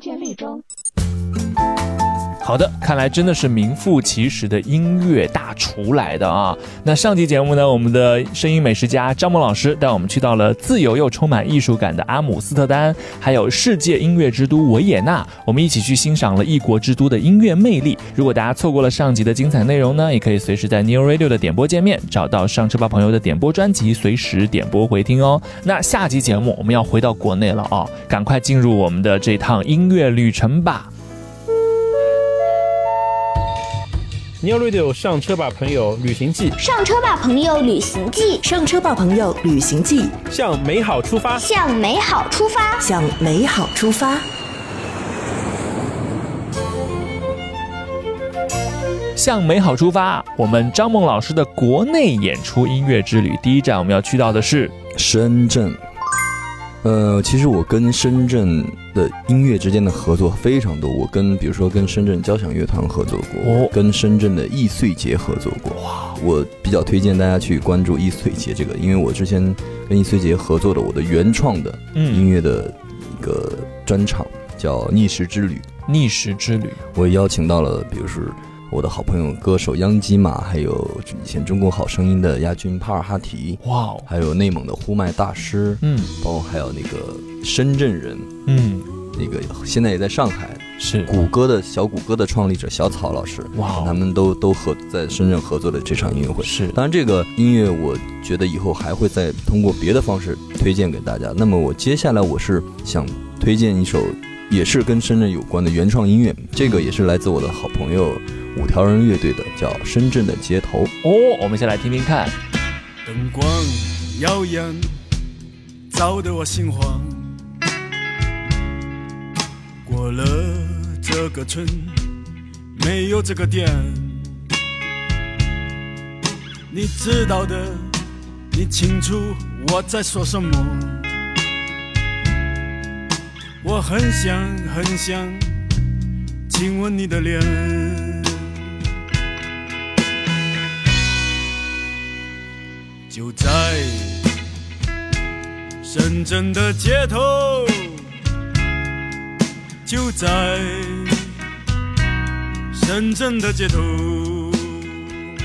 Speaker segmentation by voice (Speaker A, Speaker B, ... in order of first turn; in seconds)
Speaker A: 2.4-30.9, 49.1-54.7, 63.4-63.7, 65.8-66.1, 72.0-72.3, 75.9-76.8, 83.6-84.1, 85.8-86.1, 88.5-88.9, 90.8-91.1, 93.5-94.0, 96.4-96.8, 111.0-112.3
Speaker B: 34.4-36.5, 40.3-41.5
Speaker C: 36.6-38.5, 41.4-42.8
Speaker D: 38.5-40.1, 42.8-44.2
Speaker E: 54.9-55.8, 56.8-75.7, 76.9-88.3, 89.1-110.9
Speaker F: 113.0-115.0, 115.9-117.3, 119.8-122.1, 122.7-124.4, 126.7-128.0, 128.5-131.1, 133.6-135.6, 136.5-138.5, 143.1-144.3, 145.8-148.1, 149.8-151.3, 152.7-155.0